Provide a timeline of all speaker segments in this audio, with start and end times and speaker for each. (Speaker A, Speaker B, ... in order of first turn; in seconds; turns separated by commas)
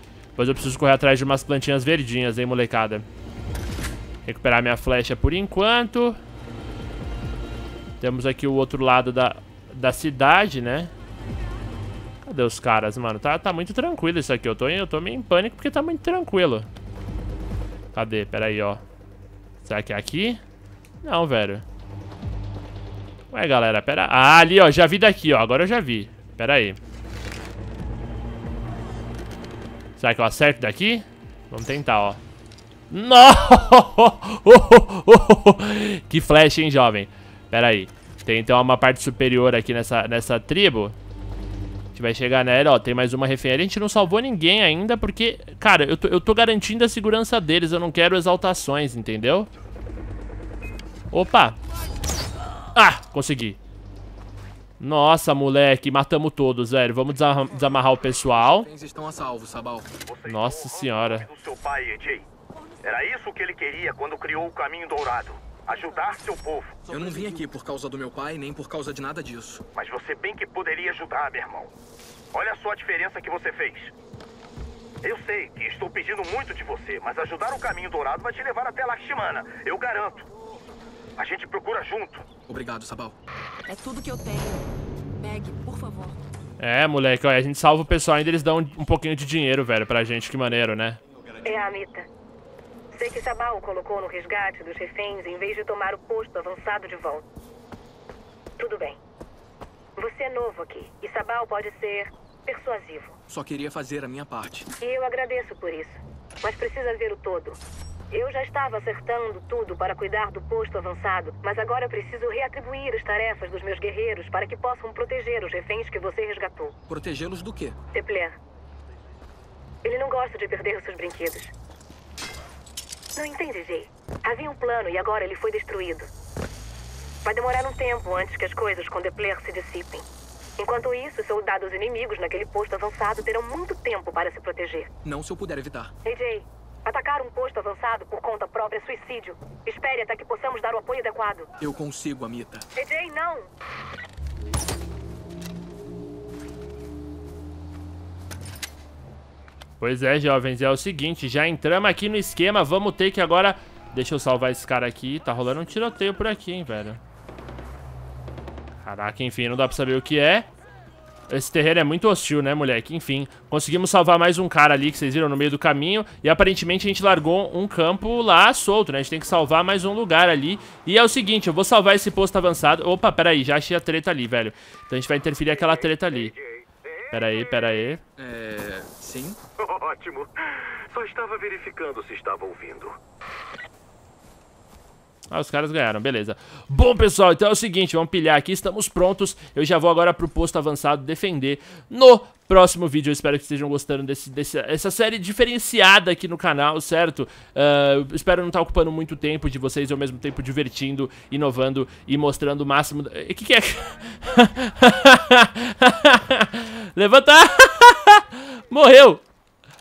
Speaker A: 0.4-3.0, Speaker A: 4.2-6.2, Speaker A: 8.0-10.9, Speaker A: 12.2-16.7, Speaker A: 17.9-18.8, Speaker A: 19.6-20.4, Speaker A: 21.0-21.6, Speaker A: 23.3-26.8, Speaker A: 30.0-32.2, Speaker A: 32.9-41.0, Speaker A: 41.9-49.5, Speaker A: 51.1-51.6, Speaker A: 52.7-53.6, Speaker A: 54.8-58.7, Speaker B: 58.3-59.9, Speaker C: 60.1-62.3, Speaker A: 60.3-61.3, Speaker C: 62.8-66.9, Speaker B: 66.9-69.6, Speaker C: 69.7-71.7, Speaker C: 72.3-73.9, Speaker C: 75.0-80.3, Speaker C: 81.2-82.3, Speaker B: 82.5-83.2, Speaker D: 83.7-86.2, Speaker A: 86.6-91.0, Speaker E: 91.4-92.1, Speaker E: 92.9-97.3, Speaker E: 98.6-99.0, Speaker E: 100.0-103.2, Speaker B: 103.3-104.7, Speaker E: 104.8-107.6, Speaker E: 108.1-116.8, Speaker B: 116.9-117.8, Speaker E: 117.9-118.4, Speaker E: 119.8-121.5, Speaker E: 123.2-126.1, Speaker E: 127.2-130.1, Speaker E: 130.6-134.9, Speaker B: 135.0-135.9, Speaker E: 136.1-141.5, Speaker B: 141.6-142.7, Speaker E: 142.8-143.5, Speaker A: 149.8-157.0, Speaker A: 158.8-160.5, Speaker A: 161.3-176.4, Speaker A: 177.1-178.0, Speaker B: 178.2-179.4, Speaker C: 179.6-183.0, Speaker A: 185.3-209.2